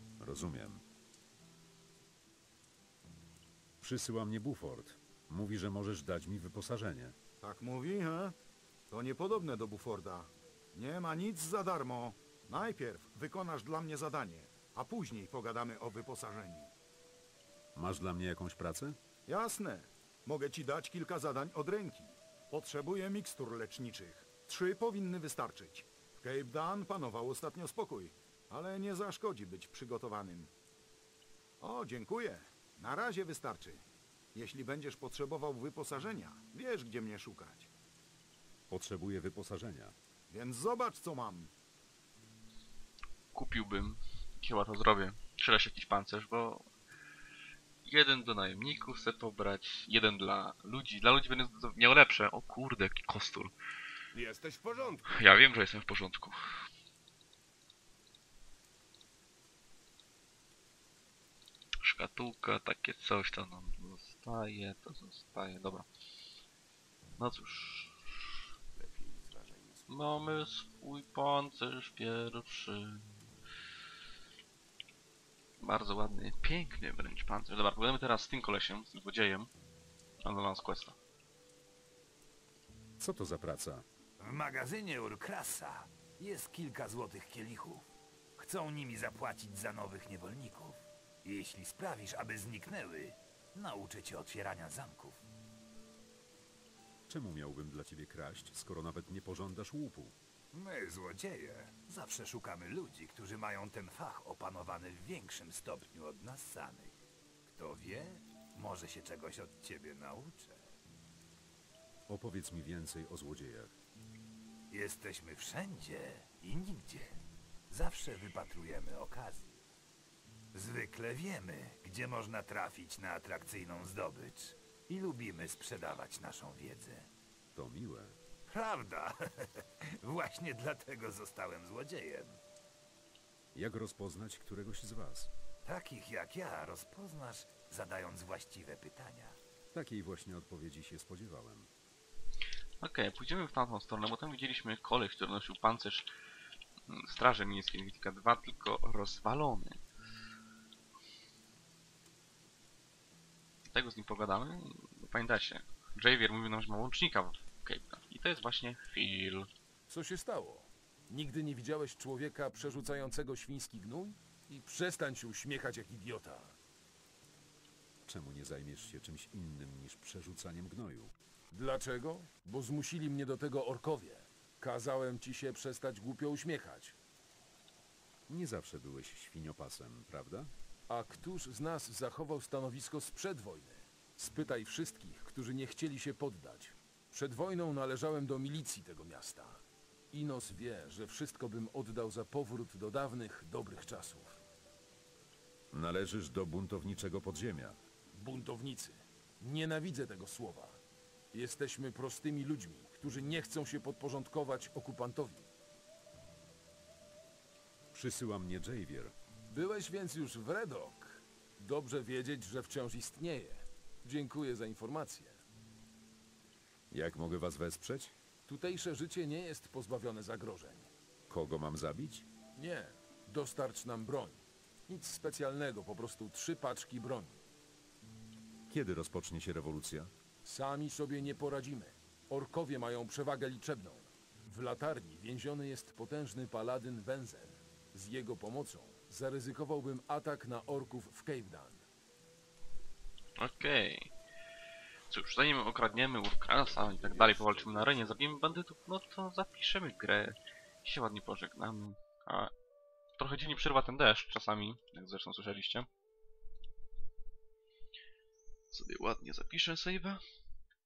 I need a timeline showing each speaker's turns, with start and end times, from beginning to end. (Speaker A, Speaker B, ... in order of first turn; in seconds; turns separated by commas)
Speaker A: 0.2-0.8, Speaker A: 3.8-7.2, Speaker B: 7.4-8.3, Speaker B: 8.9-16.7, Speaker A: 17.7-19.0, Speaker B: 19.2-30.5, Speaker B: 31.6-37.7, Speaker A: 38.7-40.0, Speaker B: 40.3-41.5, Speaker C: 43.3-46.7, Speaker C: 47.8-53.5, Speaker D: 54.1-55.0, Speaker C: 55.0-56.6, Speaker C: 61.8-65.8, Speaker C: 67.2-68.4, Speaker D: 68.8-69.8, Speaker C: 69.9-73.2, Speaker C: 75.6-79.5, Speaker C: 80.2-81.0, Speaker A: 83.0-83.8, Speaker E: 84.2-95.2, Speaker A: 97.1-100.2, Speaker E: 100.5-110.6, Speaker A: 112.1-113.8, Speaker E: 114.7-117.1, Speaker E: 117.7-119.5, Speaker E: 120.5-127.1, Speaker A: 127.5-128.2, Speaker E: 128.5-132.4, Speaker A: 133.5-135.3, Speaker E: 135.6-139.4, Speaker A: 139.7-141.7, Speaker C: 142.8-146.1, Speaker C: 146.9-149.8, Speaker C: 153.7-159.5, Speaker F: 159.9-166.5, Speaker A: 168.0-171.1, Speaker F: 171.5-176.9, Speaker A: 178.3-180.5, Speaker F: 180.9-194.4, Speaker A: 195.7-197.8, Speaker F: 198.1-200.8, Speaker F: 201.3-205.5, Speaker A: 207.9-209.1, Speaker F: 209.5-215.4, Speaker A: 216.9-218.1, Speaker F: 218.4-220.9, Speaker A: 221.3-222.3, Speaker F: 222.6-227.4, Speaker A: 228.7-230.1, Speaker F: 230.4-241.8, Speaker C: 243.4-244.1, Speaker C: 245.1-252.5, Speaker C: 253.2-255.9, Speaker C: 258.7-260.2